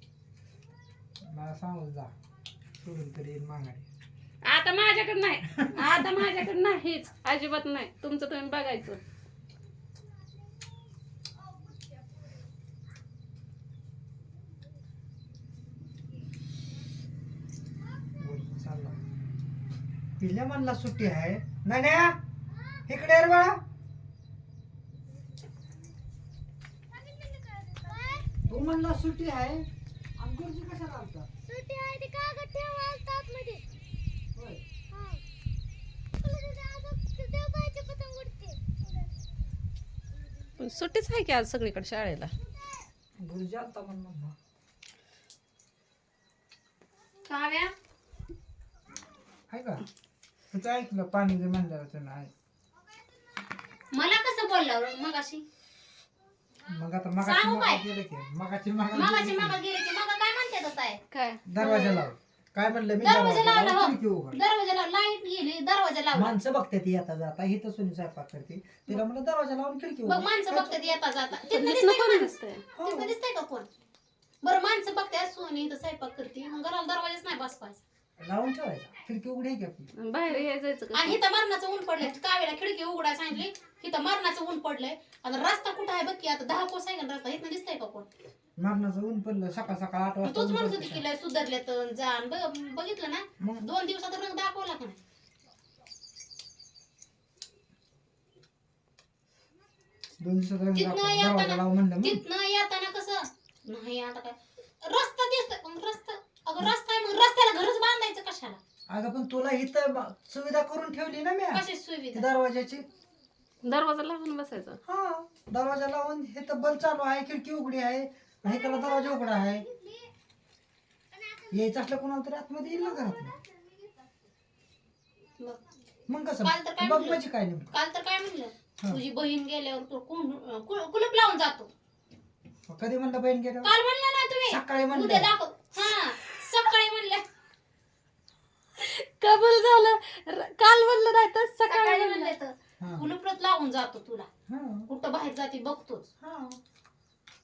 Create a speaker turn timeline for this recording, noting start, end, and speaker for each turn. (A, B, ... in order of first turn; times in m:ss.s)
0:01.3-0:02.1 A
0:02.8-0:03.9 A
0:04.4-0:09.0 B
0:05.5-0:06.1 A
0:18.2-0:19.0 A
0:20.2-0:22.2 A
0:22.9-0:23.6 A
0:27.2-0:28.3 C
0:28.4-0:29.7 A
0:30.2-0:31.3 A
0:31.5-0:33.6 C
0:34.4-0:34.6 A
0:35.0-0:35.2 C
0:36.2-0:38.6 C
0:40.6-0:42.3 B
0:43.2-0:44.4 A
0:47.3-0:47.7 D
0:49.5-0:49.8 A
0:50.5-0:52.3 A
0:53.9-0:55.4 D
0:56.6-0:59.6 A
0:57.2-0:57.8 D
0:58.9-1:01.0 D
1:01.1-1:01.5 B
1:01.4-1:04.4 A
1:01.6-1:02.1 D
1:03.0-1:06.4 D
1:06.1-1:10.9 A
1:10.0-1:13.7 D
1:11.4-1:12.7 B
1:12.7-1:13.2 A
1:14.4-1:17.8 D
1:18.2-1:19.9 A
1:20.0-1:21.2 B
1:20.9-1:28.1 D
1:28.6-1:31.0 A
1:30.2-1:35.0 D
1:33.4-1:33.7 A
1:40.2-1:42.2 A
1:40.8-1:48.6 D
1:48.9-1:52.9 A
1:51.5-1:52.3 D
1:53.6-1:54.8 B
1:54.8-1:59.7 A
2:01.4-2:03.4 A
2:06.1-2:07.7 A
2:06.4-2:11.7 D
2:12.7-2:13.7 A
2:13.6-2:17.2 D
2:14.5-2:15.3 A
2:18.8-2:22.4 B
2:21.6-2:24.3 D
2:22.8-2:23.1 A
2:24.5-2:24.9 A
2:24.9-2:26.1 D
2:26.2-2:26.6 A